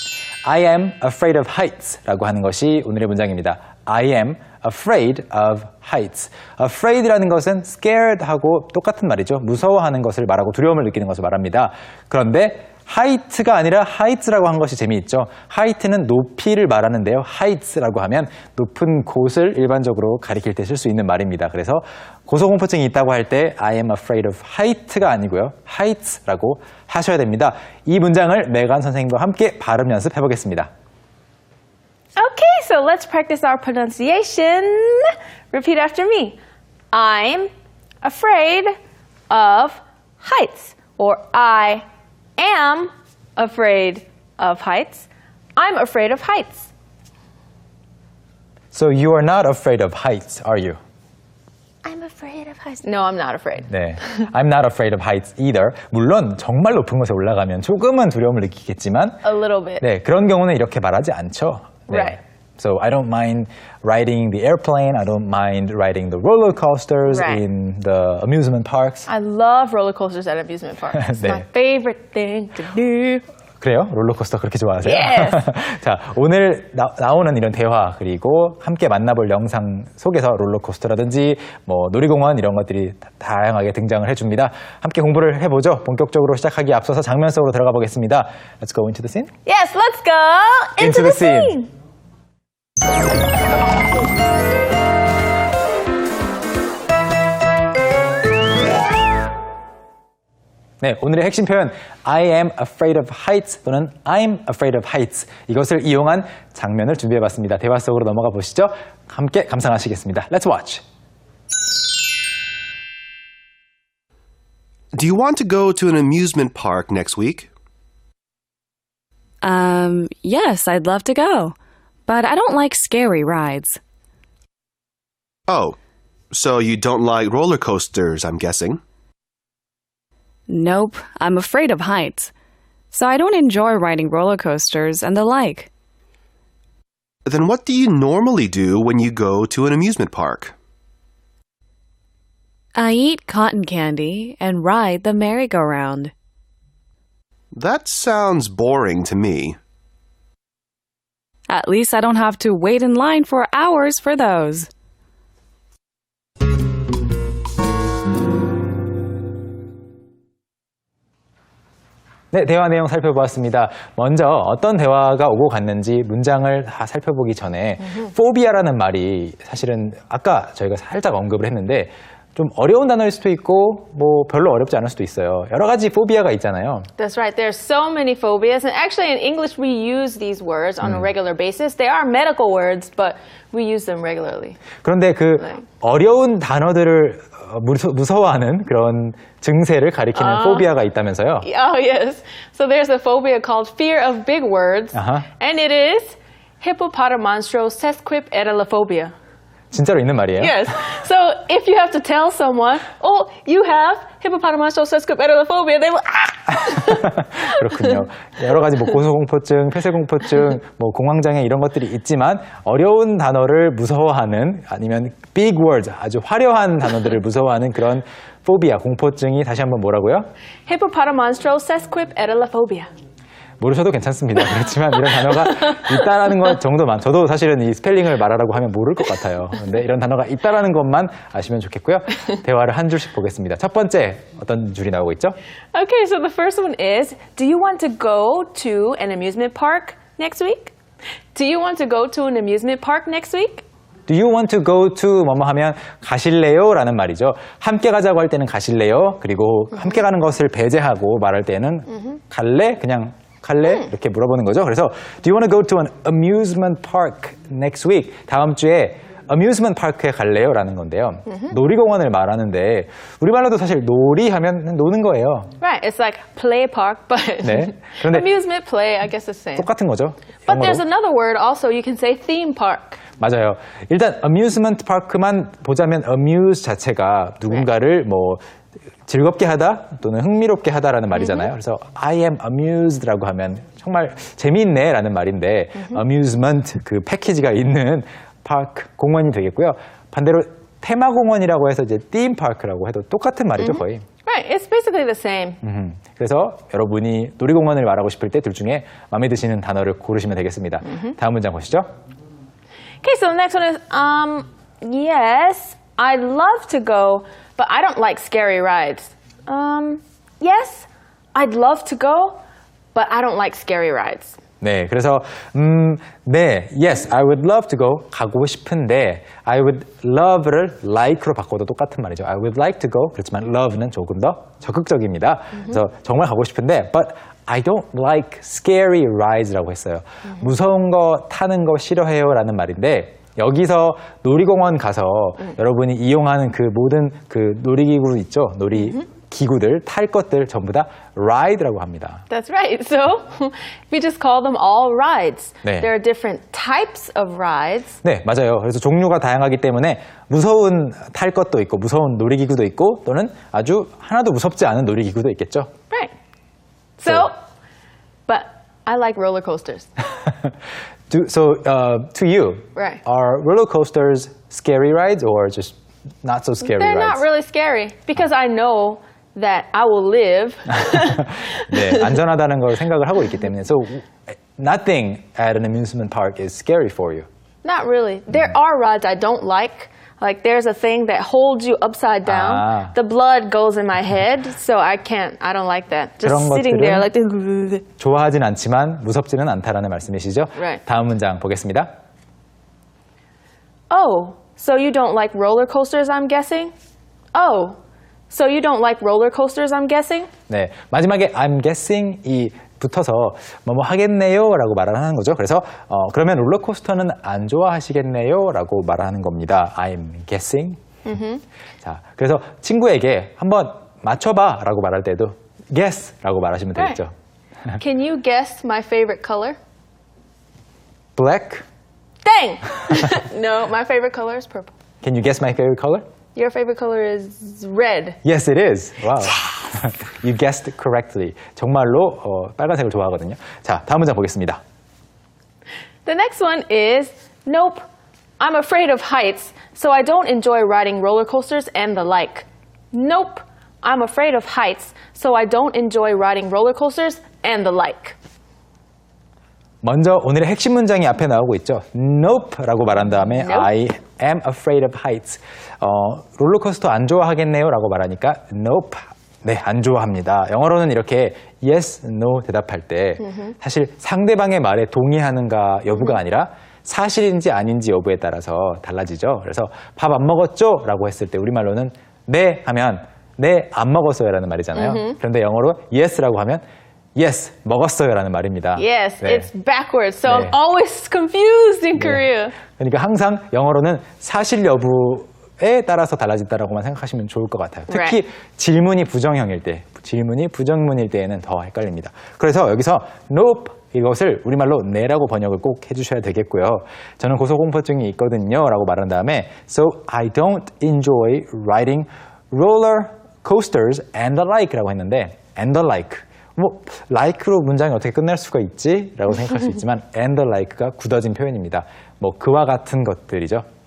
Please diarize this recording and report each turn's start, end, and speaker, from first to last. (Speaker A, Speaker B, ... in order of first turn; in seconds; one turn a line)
Speaker A: 0.4-30.7
Speaker B: 32.1-36.4
Speaker B: 36.9-37.5
Speaker B: 38.0-38.7
Speaker B: 39.3-41.8
Speaker B: 42.4-46.7
Speaker A: 48.7-50.8
Speaker B: 51.8-53.7
Speaker A: 53.7-59.2
Speaker B: 59.2-59.8
Speaker A: 59.8-69.1
Speaker B: 61.9-62.2
Speaker B: 67.0-67.4
Speaker B: 69.1-73.2
Speaker A: 71.0-71.4
Speaker A: 73.6-89.3
Speaker B: 74.8-75.5
Speaker B: 89.4-91.7
Speaker A: 90.8-91.6
Speaker A: 100.8-110.8
Speaker C: 114.9-117.5
Speaker D: 119.4-123.8
Speaker C: 125.5-125.8
Speaker C: 126.3-128.8
Speaker D: 130.5-132.3
Speaker D: 132.9-135.7
Speaker C: 137.2-140.6
Speaker D: 142.7-146.1
Speaker C: 147.5-149.6
Speaker D: 151.5-154.7
Speaker A: 162.3-176.9
Speaker B: 177.0-184.6
Speaker A: 184.8-191.5
Speaker B: 190.1-190.7
Speaker B: 191.4-199.1
Speaker A: 194.9-195.3
Speaker A: 199.7-200.7
Speaker B: 200.4-207.9
Speaker A: 206.8-220.3
Speaker B: 220.7-222.9
Speaker A: 223.6-235.3
Speaker B: 235.7-240.7
Speaker B: 241.3-243.6
Speaker A: 244.1-265.5
Speaker B: 265.6-269.7
Speaker A: 267.4-268.3
Speaker A: 269.6-270.8
Speaker B: 270.4-273.0
Speaker A: 273.2-278.4
Speaker A: 279.1-294.0
Speaker B: 281.2-281.4
Speaker B: 293.6-295.6
Speaker A: 295.6-301.9
Speaker B: 303.0-312.4
Speaker B: 312.9-314.4
Speaker A: 314.6-342.2
Speaker B: 342.3-348.0
Speaker A: 345.6-345.9
Speaker A: 348.0-355.7
Speaker B: 357.0-357.3
Speaker B: 358.3-359.9
Speaker A: 361.1-367.2
Speaker B: 362.7-363.0
Speaker B: 366.6-371.4
Speaker A: 370.9-377.3
Speaker B: 377.6-387.9
Speaker A: 382.2-382.9
Speaker A: 386.2-387.1
Speaker A: 388.0-391.9
Speaker B: 390.5-390.8
Speaker B: 393.9-396.7
Speaker B: 397.3-397.8
Speaker B: 398.3-400.3
Speaker A: 400.5-410.8
Speaker B: 411.1-411.4
Speaker A: 411.8-417.1
Speaker B: 416.7-417.0
Speaker B: 417.8-419.6
Speaker A: 421.1-421.6
Speaker B: 422.2-424.7
Speaker A: 425.0-426.0
Speaker B: 426.3-428.2
Speaker A: 428.2-434.6
Speaker B: 436.0-437.8
Speaker B: 438.4-448.2
Speaker A: 449.8-476.6
Speaker B: 453.4-453.7
Speaker B: 474.7-475.1
Speaker A: 477.1-479.5
Speaker B: 478.8-482.6
Speaker A: 480.2-480.5
Speaker A: 482.0-513.6
Speaker B: 487.9-488.2